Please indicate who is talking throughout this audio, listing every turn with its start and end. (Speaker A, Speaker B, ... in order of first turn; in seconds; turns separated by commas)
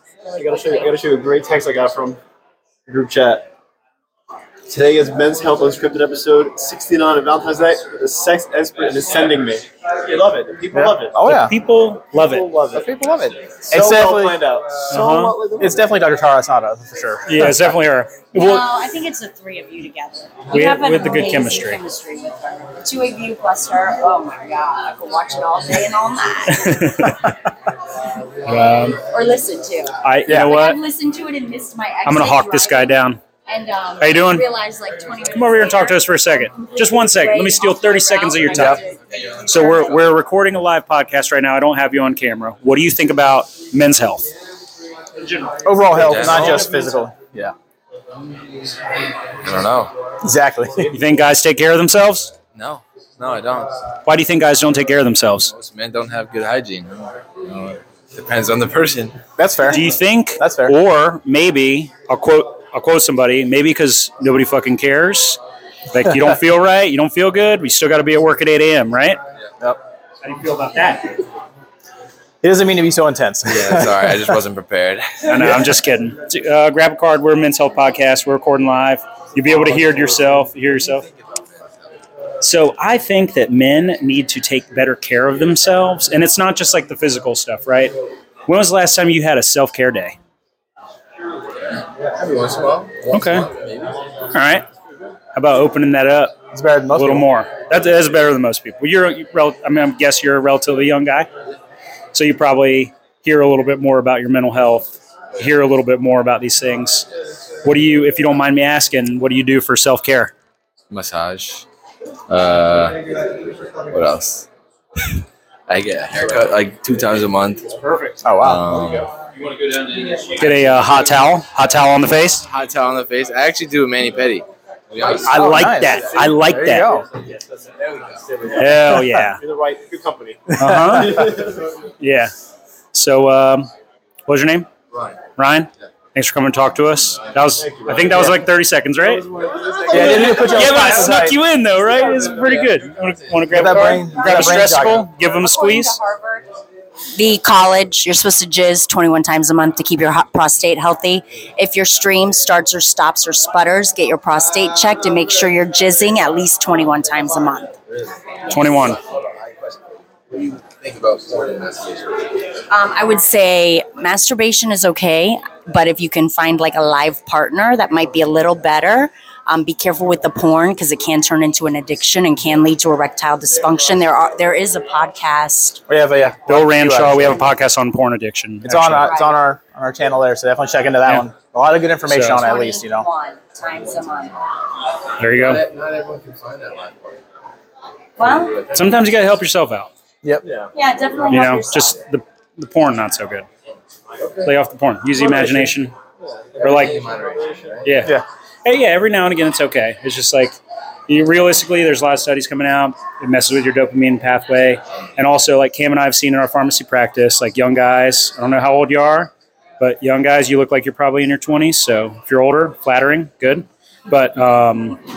Speaker A: 0.3-2.2, Speaker B: 0.4-0.9, Speaker A: 2.9-3.5, Speaker A: 4.7-11.2, Speaker C: 10.7-11.5, Speaker D: 11.2-12.5, Speaker A: 12.2-12.9, Speaker C: 12.7-14.4, Speaker A: 13.7-15.9, Speaker D: 14.9-15.3, Speaker C: 15.6-17.8, Speaker D: 17.3-18.6, Speaker B: 18.3-26.8, Speaker D: 20.5-21.8, Speaker D: 26.5-27.2, Speaker D: 28.5-29.0, Speaker B: 29.1-40.0, Speaker D: 30.0-30.8, Speaker C: 30.3-30.5, Speaker D: 32.0-33.2, Speaker D: 34.0-34.5, Speaker D: 35.3-38.8, Speaker D: 39.4-44.3, Speaker C: 45.6-47.5, Speaker E: 46.0-46.7, Speaker A: 46.3-46.8, Speaker E: 49.4-49.9, Speaker C: 50.2-50.9, Speaker D: 50.9-52.3, Speaker E: 52.5-53.7, Speaker D: 54.0-55.5, Speaker E: 55.5-59.2, Speaker C: 59.4-60.7, Speaker D: 59.7-65.4, Speaker D: 65.9-69.2, Speaker D: 70.2-71.1, Speaker C: 72.4-74.4, Speaker E: 73.4-75.2, Speaker D: 75.2-81.1, Speaker D: 82.4-87.9, Speaker D: 88.5-90.2, Speaker E: 92.1-94.0, Speaker D: 93.1-93.5, Speaker D: 94.3-94.6, Speaker D: 95.3-96.4, Speaker C: 96.5-97.3, Speaker D: 96.9-101.3, Speaker D: 102.1-107.0, Speaker D: 107.6-110.3, Speaker E: 110.9-111.7, Speaker E: 112.3-113.0, Speaker E: 113.9-114.5, Speaker E: 115.7-117.7, Speaker A: 117.8-118.2, Speaker C: 118.2-118.7, Speaker E: 118.4-119.1, Speaker A: 119.7-120.2, Speaker D: 120.4-122.5, Speaker E: 122.5-125.7, Speaker C: 125.2-127.1, Speaker D: 125.3-126.9, Speaker A: 126.8-131.5, Speaker E: 127.8-128.2, Speaker D: 128.6-129.4, Speaker D: 130.6-131.4, Speaker C: 130.6-131.4, Speaker D: 132.0-132.3, Speaker D: 132.9-133.7, Speaker D: 134.3-134.7, Speaker D: 135.3-139.2, Speaker A: 137.6-138.4, Speaker A: 139.0-140.9, Speaker C: 139.9-141.4, Speaker D: 139.9-146.0, Speaker A: 142.1-142.8, Speaker C: 143.5-145.1, Speaker B: 145.4-146.4, Speaker B: 147.1-157.7, Speaker B: 158.5-158.9, Speaker D: 158.5-159.0, Speaker E: 160.3-162.3, Speaker B: 162.7-175.8, Speaker C: 175.9-177.5, Speaker D: 176.5-179.1, Speaker C: 178.6-183.1, Speaker B: 179.0-179.3, Speaker D: 182.1-182.4, Speaker B: 182.3-184.3, Speaker D: 185.2-185.6, Speaker E: 185.3-187.2, Speaker B: 188.2-188.6, Speaker E: 188.3-188.9, Speaker D: 188.7-189.9, Speaker A: 190.4-190.7, Speaker B: 190.7-192.0, Speaker D: 191.3-193.4, Speaker E: 194.2-194.5, Speaker D: 194.4-195.9, Speaker A: 195.3-195.6, Speaker A: 196.5-197.8, Speaker E: 196.6-197.8, Speaker D: 196.6-197.0, Speaker D: 197.8-198.1, Speaker D: 198.6-200.6, Speaker D: 201.1-215.0